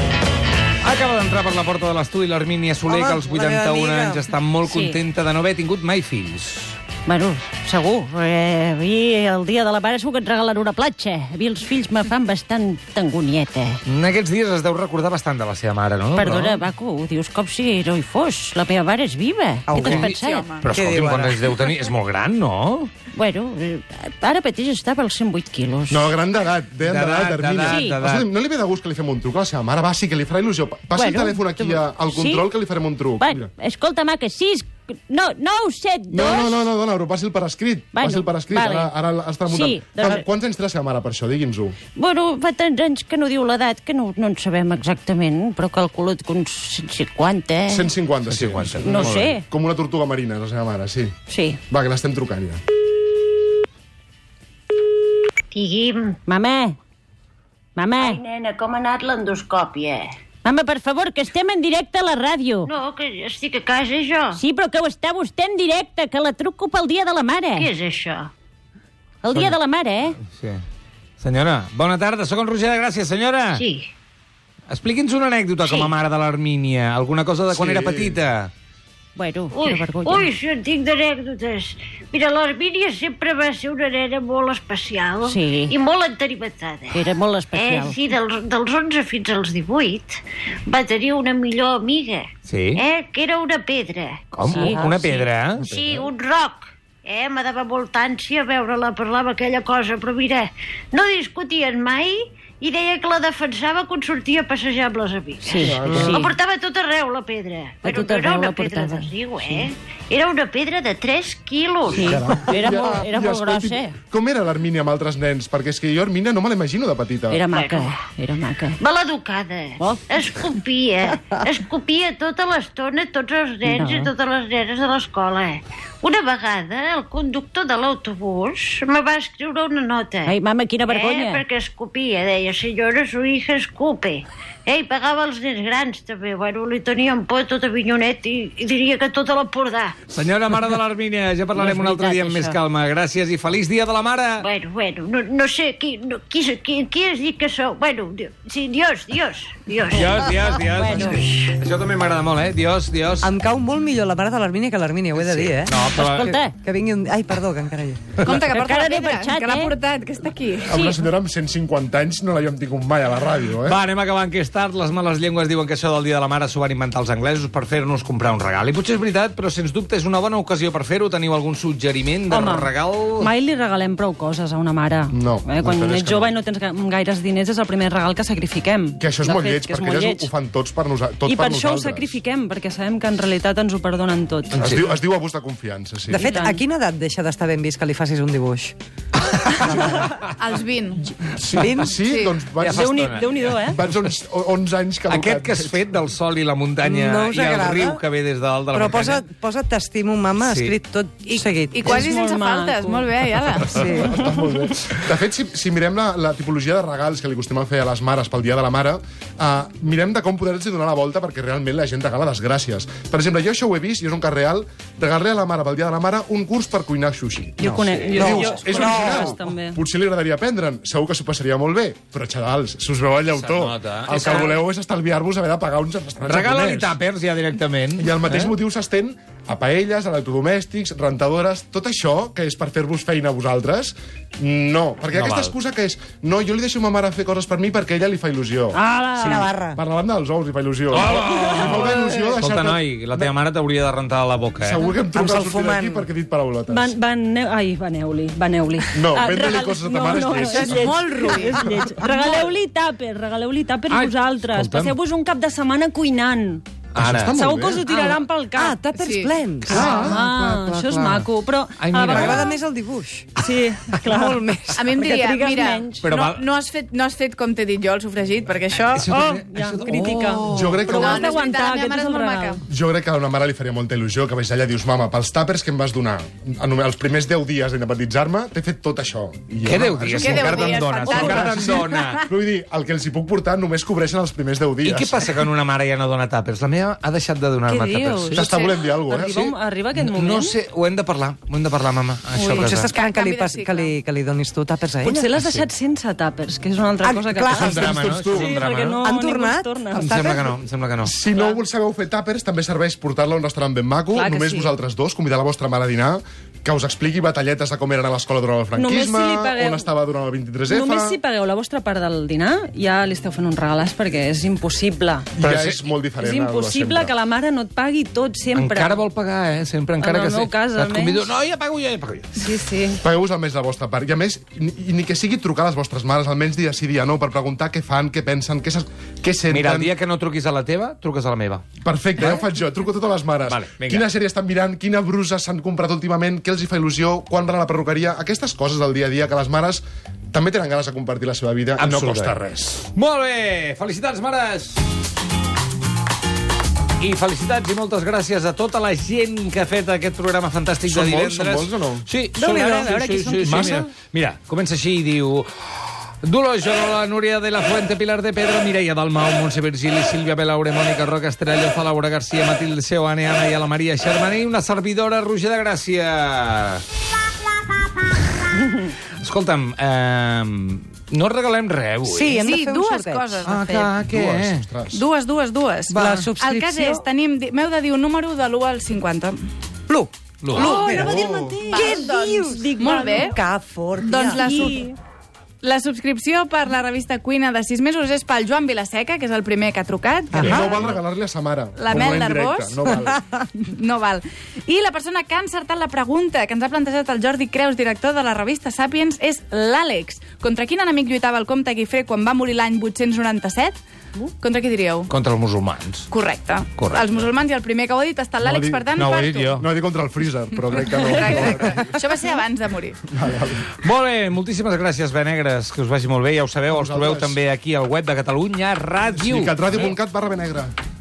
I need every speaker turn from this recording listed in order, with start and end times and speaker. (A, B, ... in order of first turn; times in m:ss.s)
0:00.8-0:06.8 A
0:02.9-0:04.2 B
0:04.7-0:04.9 C
0:07.0-0:13.8 C
0:13.9-0:16.6 A
0:16.1-0:20.6 C
0:19.7-0:22.9 A
0:19.8-0:20.8 D
0:20.8-0:21.3 B
0:23.1-0:26.2 C
0:25.9-0:33.5 E
0:26.8-0:28.3 A
0:27.6-0:28.0 C
0:30.9-0:32.5 C
0:33.2-0:36.6 C
0:36.1-0:41.8 E
0:37.9-0:40.2 C
0:42.0-0:47.9 C
0:47.7-0:51.1 E
0:48.2-0:49.3 A
0:48.8-0:49.4 F
0:49.0-0:49.3 C
0:51.3-0:51.6 C
0:51.7-0:52.6 E
0:55.5-0:56.2 G
0:56.2-0:56.8 C
0:57.8-0:58.4 C
0:58.0-1:00.1 G
1:00.4-1:02.7 C
1:02.6-1:04.4 G
1:04.3-1:07.7 C
1:07.6-1:08.3 G
1:09.2-1:10.2 C
1:10.3-1:10.6 A
1:11.2-1:13.6 A
1:13.5-1:13.9 G
1:14.7-1:18.5 A
1:15.6-1:15.9 G
1:17.5-1:18.2 E
1:19.2-1:20.4 C
1:19.5-1:52.2 G
1:25.2-1:25.8 C
1:26.9-1:28.2 C
1:32.4-1:32.8 A
1:34.3-1:35.8 A
1:34.4-1:35.0 C
1:35.6-1:36.1 E
1:45.4-1:46.3 C
1:45.5-1:46.3 F
1:45.6-1:46.2 E
1:47.8-1:49.6 C
1:51.9-1:53.9 C
1:51.9-1:57.4 E
1:57.3-1:58.8 C
1:57.5-1:58.0 G
1:58.8-2:10.4 G
1:59.8-2:00.4 C
2:03.6-2:04.1 C
2:10.2-2:11.5 C
2:10.9-2:20.0 G
2:20.1-2:24.5 A
2:24.4-2:30.2 G
2:29.9-2:33.3 A
2:30.6-2:31.2 C
2:31.2-2:31.5 G
2:33.2-2:35.7 B
2:35.1-2:36.4 A
2:35.9-2:36.6 C
2:36.6-2:38.0 B
2:38.2-2:40.7 D
2:38.5-2:39.8 C
2:40.7-2:43.8 E
2:40.7-2:41.0 C
2:43.6-2:53.3 A
2:52.3-3:00.3 F
2:55.1-2:56.3 E
2:59.0-3:02.1 E
3:01.2-3:04.7 F
3:04.5-3:06.3 E
3:04.6-3:04.9 A
3:06.1-3:06.6 F
3:06.2-3:08.7 B
3:06.2-3:06.5 D
3:09.4-3:10.2 A
3:10.4-3:11.0 D
3:11.2-3:15.8 E
3:11.8-3:12.4 D
3:12.6-3:13.8 A
3:12.7-3:13.8 F
3:15.1-3:19.3 A
3:17.0-3:17.9 B
3:18.7-3:21.7 B
3:20.4-3:20.7 A
3:21.2-3:24.2 D
3:21.8-3:23.2 F
3:23.9-3:37.6 E
3:37.6-3:39.8 F
3:37.8-3:38.3 A
3:38.1-3:47.0 E
3:43.4-3:44.6 A
3:46.2-3:48.5 A
3:48.0-4:03.3 E
3:55.1-3:55.5 A
3:58.7-3:59.5 F
4:00.9-4:04.8 A
4:04.6-4:06.9 E
4:05.4-4:05.9 B
4:06.7-4:16.6 F
4:08.9-4:11.9 E
4:11.0-4:11.6 D
4:13.9-4:14.9 A
4:16.9-4:17.8 A
4:17.0-4:17.8 E
4:17.3-4:18.9 F
4:18.6-4:19.6 B
4:18.9-4:19.7 D
4:19.7-4:21.3 A
4:19.7-4:22.6 F
4:19.8-4:20.0 E
4:21.8-4:22.5 A
4:22.2-4:23.3 B
4:23.4-4:26.0 F
4:24.2-4:24.7 B
4:24.8-4:29.1 D
4:26.0-4:26.5 A
4:28.7-4:31.0 A
4:29.1-4:32.6 F
4:30.5-4:31.2 E
4:30.8-4:32.6 D
4:32.7-4:45.2 E
4:39.6-4:42.2 A
4:40.1-4:42.2 D
4:44.8-4:48.5 A
4:47.7-4:48.4 F
4:48.3-4:49.4 E
4:48.4-4:48.7 D
4:49.0-4:50.5 F
4:49.3-4:52.9 A
4:52.3-4:54.0 D
4:52.8-4:55.1 B
4:55.0-5:00.3 F
4:55.4-4:55.7 A
4:57.0-4:57.6 B
4:57.5-4:59.0 A
4:57.6-4:58.5 E
4:59.0-4:59.6 B
4:59.9-5:01.1 A
5:01.0-5:11.2 E
5:04.1-5:04.7 F
5:08.8-5:09.9 F
5:10.7-5:15.3 F
5:15.4-5:17.1 E
5:15.4-5:15.9 A
5:16.2-5:19.0 F
5:18.5-5:22.5 A
5:20.0-5:21.3 F
5:22.4-5:23.0 F
5:23.0-5:29.9 E
5:29.5-5:31.6 A
5:31.8-5:42.8 E
5:33.4-5:34.0 A
5:41.8-5:42.4 A
5:42.9-5:44.8 A
5:47.0-6:06.8 A
5:50.8-5:52.1 E
6:09.2-6:12.5 A
6:12.1-6:13.2 B
6:12.3-6:14.0 D
6:13.4-6:14.7 A
6:14.0-6:15.0 E
6:14.9-6:19.4 D
6:15.9-6:16.3 A
6:16.0-6:17.0 B
6:20.4-6:20.8 A
6:20.5-6:23.4 D
6:20.9-6:21.6 E
6:21.1-6:21.6 B
6:21.8-6:22.1 F
6:22.6-6:23.2 C
6:22.9-6:23.3 F
6:23.4-6:24.4 B
6:24.0-6:24.9 D
6:24.4-6:24.9 F
6:25.6-6:31.0 D
6:30.3-6:33.2 E
6:31.8-6:43.8 D
6:44.4-6:45.1 D
6:45.0-6:46.1 A
6:46.1-6:49.6 D
6:46.7-6:47.3 A
6:48.4-6:51.9 E
6:48.9-6:49.6 A
6:51.0-6:53.0 D
6:53.1-6:53.7 E
6:53.8-6:59.9 A
6:56.7-6:57.4 E
6:59.2-7:00.7 E